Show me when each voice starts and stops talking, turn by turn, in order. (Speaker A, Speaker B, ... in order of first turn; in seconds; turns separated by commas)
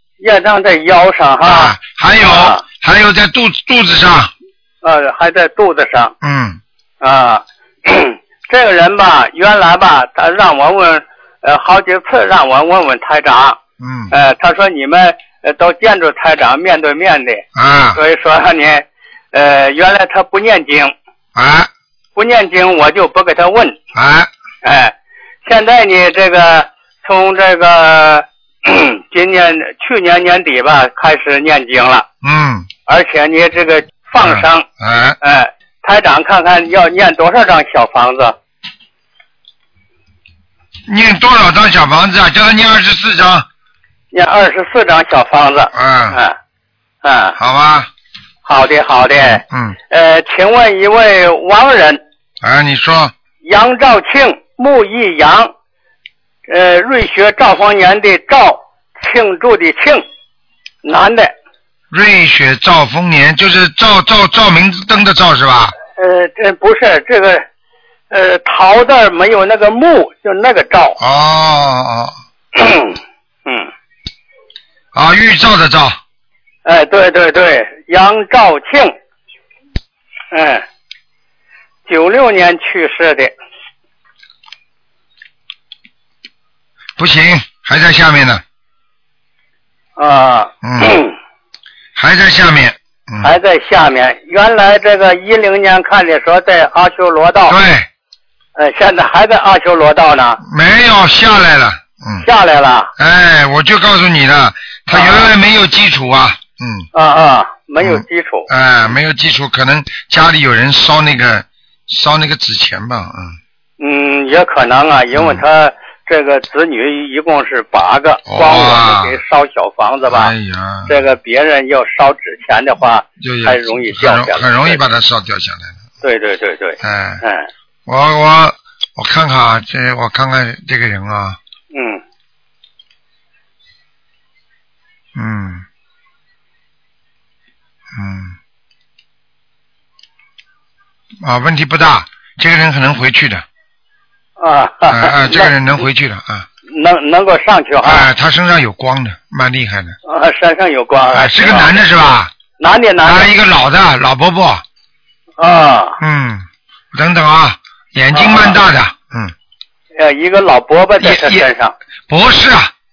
Speaker A: 0.2-2.6, Speaker B: 1.4-4.3, Speaker A: 4.8-6.1, Speaker B: 6.2-6.6, Speaker A: 7.0-13.6, Speaker B: 13.8-14.1, Speaker A: 14.1-20.9, Speaker B: 17.6-18.0, Speaker B: 21.4-21.7, Speaker A: 22.2-23.8, Speaker B: 23.9-24.3, Speaker A: 24.6-24.9, Speaker A: 25.4-32.1, Speaker B: 32.2-32.7, Speaker A: 32.9-34.7, Speaker B: 34.2-35.2, Speaker A: 35.2-38.4, Speaker B: 40.9-43.5, Speaker A: 44.1-46.4, Speaker B: 45.7-46.2, Speaker A: 47.0-47.4, Speaker B: 47.4-47.9, Speaker A: 48.4-52.0, Speaker B: 49.3-49.8, Speaker B: 52.4-53.1, Speaker A: 53.4-55.5, Speaker A: 56.5-60.0, Speaker A: 60.8-61.3, Speaker B: 61.9-65.8, Speaker A: 66.0-67.4, Speaker A: 68.1-71.0, Speaker B: 71.0-72.1, Speaker A: 72.5-73.7, Speaker B: 74.9-76.0, Speaker A: 76.7-78.9, Speaker A: 80.3-80.7, Speaker A: 81.9-83.3, Speaker B: 87.0-88.4, Speaker A: 90.0-91.1, Speaker B: 90.6-91.0, Speaker B: 92.0-93.3, Speaker A: 93.2-97.6, Speaker B: 97.5-97.9, Speaker A: 98.6-100.4, Speaker B: 100.4-102.2, Speaker A: 102.2-102.9, Speaker B: 103.0-106.9, Speaker A: 104.9-105.3, Speaker A: 106.9-108.5, Speaker B: 107.8-113.4, Speaker A: 113.8-120.3, Speaker B: 115.1-115.4, Speaker B: 118.3-119.2, Speaker B: 120.1-121.0, Speaker A: 120.9-124.8, Speaker B: 123.2-125.8, Speaker A: 126.0-127.5, Speaker B: 126.8-127.2, Speaker B: 127.9-131.4, Speaker A: 131.7-132.0, Speaker B: 135.2-135.7, Speaker B: 137.9-138.4, Speaker B: 141.2-143.4, Speaker A: 144.4-145.6, Speaker B: 144.9-146.5, Speaker A: 146.7-148.1, Speaker B: 147.8-150.0, Speaker A: 150.1-151.8, Speaker B: 151.1-152.3, Speaker A: 152.6-153.3, Speaker B: 153.0-154.6, Speaker A: 155.4-156.0, Speaker B: 156.0-159.3, Speaker A: 158.1-158.6, Speaker A: 160.0-161.7, Speaker B: 161.0-161.5, Speaker B: 162.1-162.7